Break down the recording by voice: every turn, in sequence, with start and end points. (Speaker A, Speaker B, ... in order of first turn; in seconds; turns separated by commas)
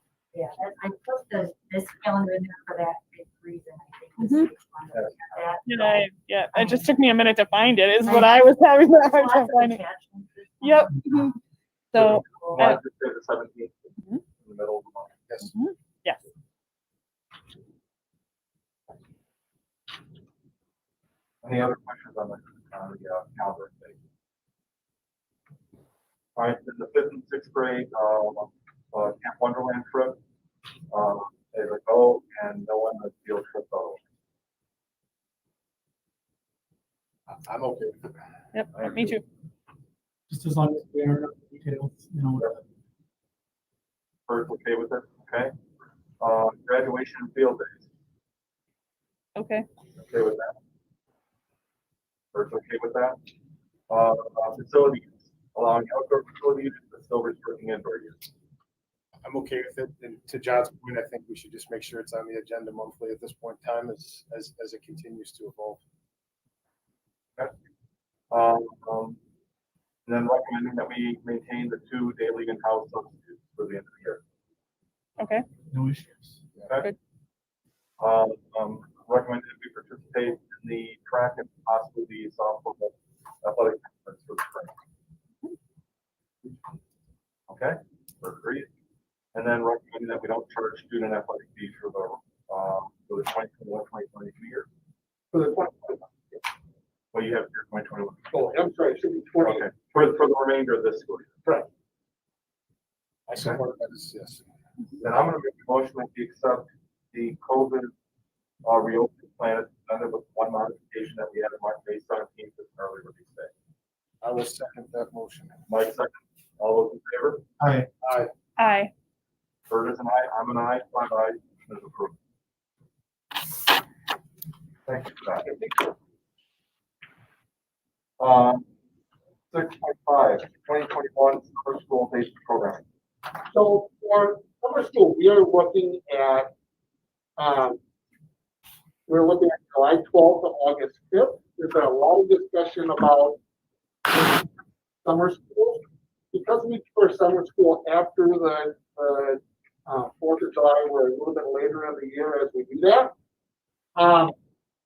Speaker A: 0.3-6.9, Speaker B: 4.2-4.5, Speaker C: 4.9-5.5, Speaker B: 5.7-9.8, Speaker A: 8.1-11.3, Speaker B: 10.6-11.4, Speaker B: 11.9-12.8, Speaker C: 12.0-15.2, Speaker A: 12.2-12.7, Speaker B: 15.4-16.2, Speaker C: 21.4-24.0, Speaker C: 26.4-30.2, Speaker C: 30.9-34.0, Speaker D: 37.3-38.2, Speaker B: 38.5-39.2, Speaker E: 40.3-42.6, Speaker C: 44.3-45.5, Speaker C: 46.2-47.8, Speaker B: 49.4-49.6, Speaker C: 50.0-50.5, Speaker C: 52.3-53.2, Speaker C: 53.9-58.3, Speaker D: 59.2-65.8, Speaker C: 68.3-69.2, Speaker C: 70.1-74.2, Speaker B: 75.2-75.5, Speaker E: 75.7-76.4, Speaker C: 78.0-84.8, Speaker C: 87.5-88.7, Speaker C: 89.3-94.7, Speaker F: 95.3-96.4, Speaker C: 97.1-98.3, Speaker F: 98.3-99.7, Speaker C: 99.4-101.3, Speaker D: 103.3-104.4, Speaker C: 105.0-107.9, Speaker C: 108.6-113.5, Speaker D: 114.2-115.5, Speaker C: 115.7-117.4, Speaker E: 117.6-117.9, Speaker D: 118.0-118.3, Speaker B: 118.6-118.9, Speaker C: 119.7-122.1, Speaker C: 124.9-125.9, Speaker C: 128.2-128.7, Speaker C: 129.5-132.8, Speaker F: 133.5-136.5, Speaker F: 137.4-137.8, Speaker F: 139.1-143.4, Speaker F: 144.1-144.4, Speaker F: 145.1-153.1, Speaker F: 154.0-154.3